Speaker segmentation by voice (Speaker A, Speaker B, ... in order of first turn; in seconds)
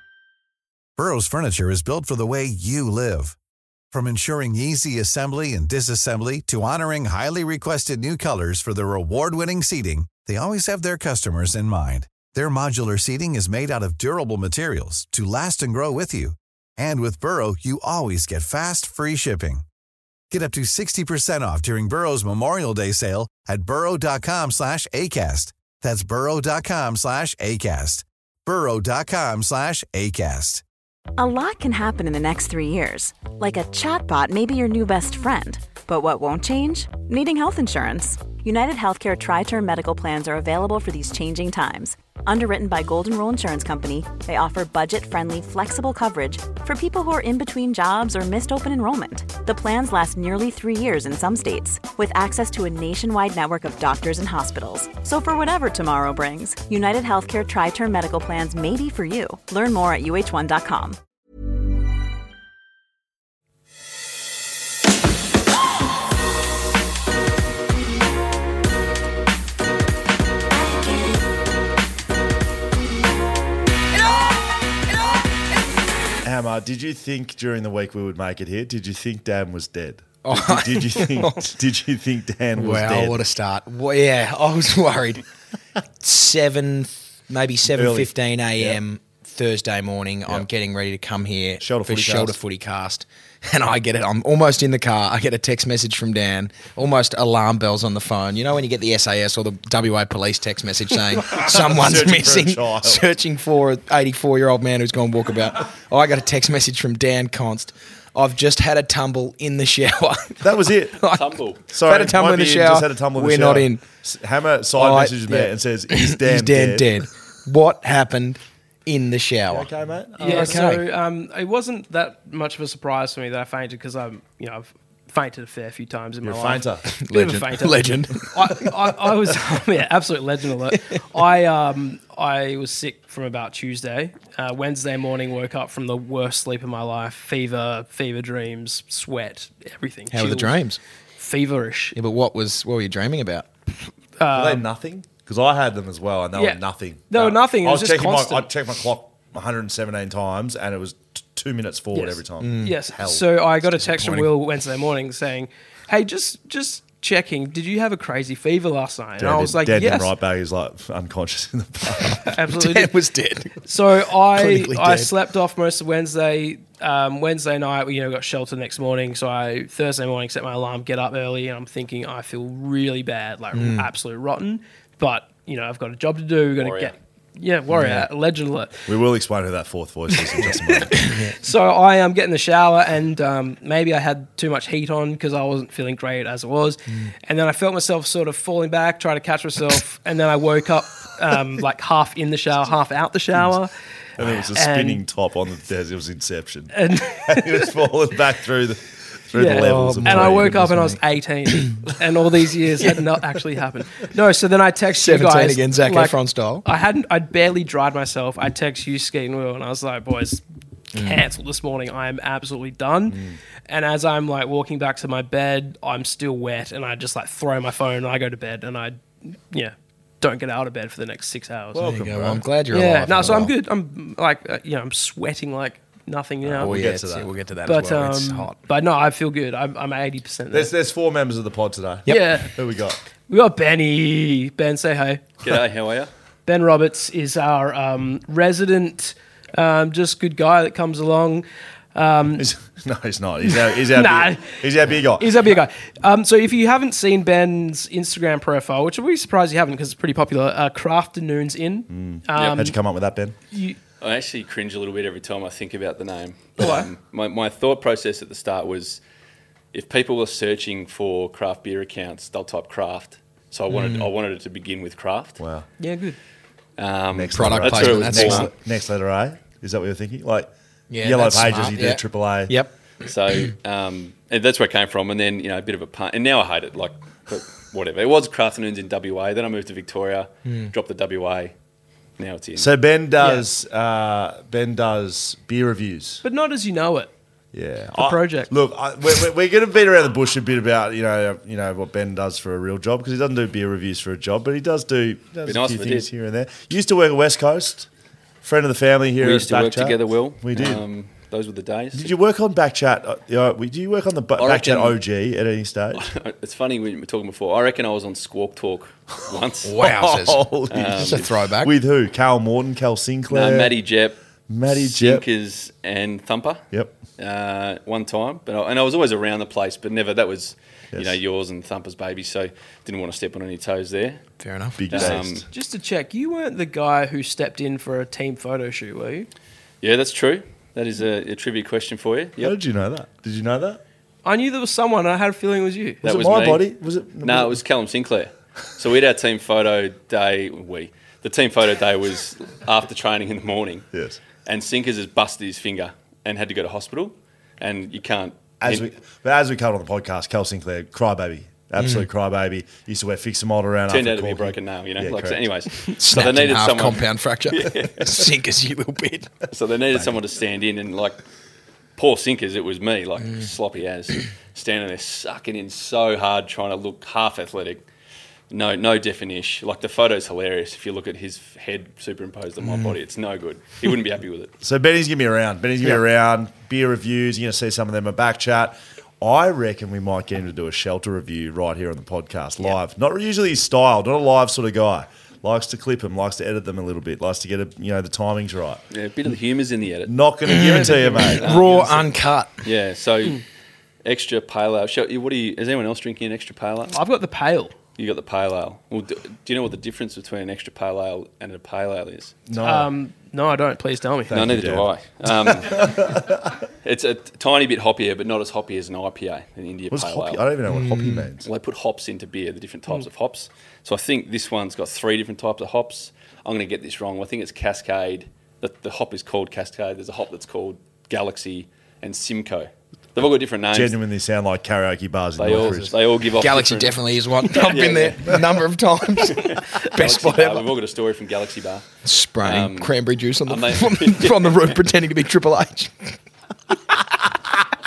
Speaker A: 1.0-3.4, 3.9-19.6, 20.3-30.6
Speaker B: 31.2-61.0
Speaker C: 76.2-83.2, 87.7-88.8, 91.6-92.3, 101.3-103.0, 110.4-111.0, 111.7-116.9, 119.5-120.6, 126.2-126.8, 144.3-153.2, 159.2-162.3, 178.9-181.1, 194.2-200.6, 213.1-213.4, 221.7-222.4, 226.4-227.3, 230.5-233.0, 242.3-245.4, 251.9-253.3, 265.4-265.6, 267.1-270.5, 271.0-272.5, 282.6-286.2, 287.5-297.9, 298.4-300.8, 301.9-306.1, 309.8-313.7, 314.5-315.2, 324.8-325.4, 332.4-333.8, 336.0-337.6, 343.9-344.2, 348.6-355.4, 374.6-388.8, 390.1-391.8, 402.5-402.9, 404.3-404.9, 405.6-406.4, 409.9-411.5, 423.7-425.9
Speaker D: 80.2-81.5, 82.5-85.2, 86.0-113.8, 114.7-120.8, 126.9-128.6, 140.1-140.8, 141.9-143.4, 152.4-152.8, 153.6-154.3, 162.5-163.6, 164.3-165.1, 173.5-173.9, 177.8-178.1, 180.9-181.3, 199.4-201.0, 201.5-201.8, 202.8-203.1, 204.9-206.6, 210.9-211.2, 221.8-223.5, 226.6-228.6, 263.7-264.1, 267.3-268.5, 270.9-272.7, 280.4-280.7, 309.6-311.7, 324.4-325.1, 351.8-352.1, 355.9-359.3, 372.6-372.9, 390.4-392.6, 410.7-411.3, 426.4-430.7, 432.0-436.1
Speaker E: 111.0-111.6, 176.6-176.9, 235.4-236.1, 254.0-259.0, 259.7-265.4, 266.8-268.5, 273.0-281.5, 282.2-282.7, 295.4-296.1, 299.2-302.1, 304.4-305.0, 305.9-309.8, 310.7-311.4, 313.3-316.6, 317.2-324.2, 324.9-325.4, 329.8-332.6, 336.0-336.7, 337.2-343.9, 344.4-348.9, 353.9-358.2, 359.5-361.2, 362.0-367.8, 368.5-374.5, 388.9-390.1, 391.4-392.0, 392.6-393.4, 394.0-397.0, 397.9-402.4, 404.3-410.4, 411.4-424.0, 425.4-428.4, 429.2-431.9, 432.4-432.9, 433.5-434.7
Speaker F: 120.2-140.6, 141.2-141.9, 144.2-144.6, 146.3-148.5, 151.9-160.1, 162.2-162.9, 163.6-178.9, 180.5-180.8, 181.4-193.7, 194.5-195.0, 196.7-197.7, 199.3-210.4, 210.9-221.8, 222.7-226.8, 227.6-230.7, 232.1-232.5, 233.3-235.2, 236.4-242.5, 243.5-252.8, 253.5-253.8, 256.6-256.9, 265.8-266.1, 286.2-287.1, 288.0-288.5, 325.5-329.3, 334.2-336.0, 390.7-391.4, 396.9-397.7, 402.6-404.3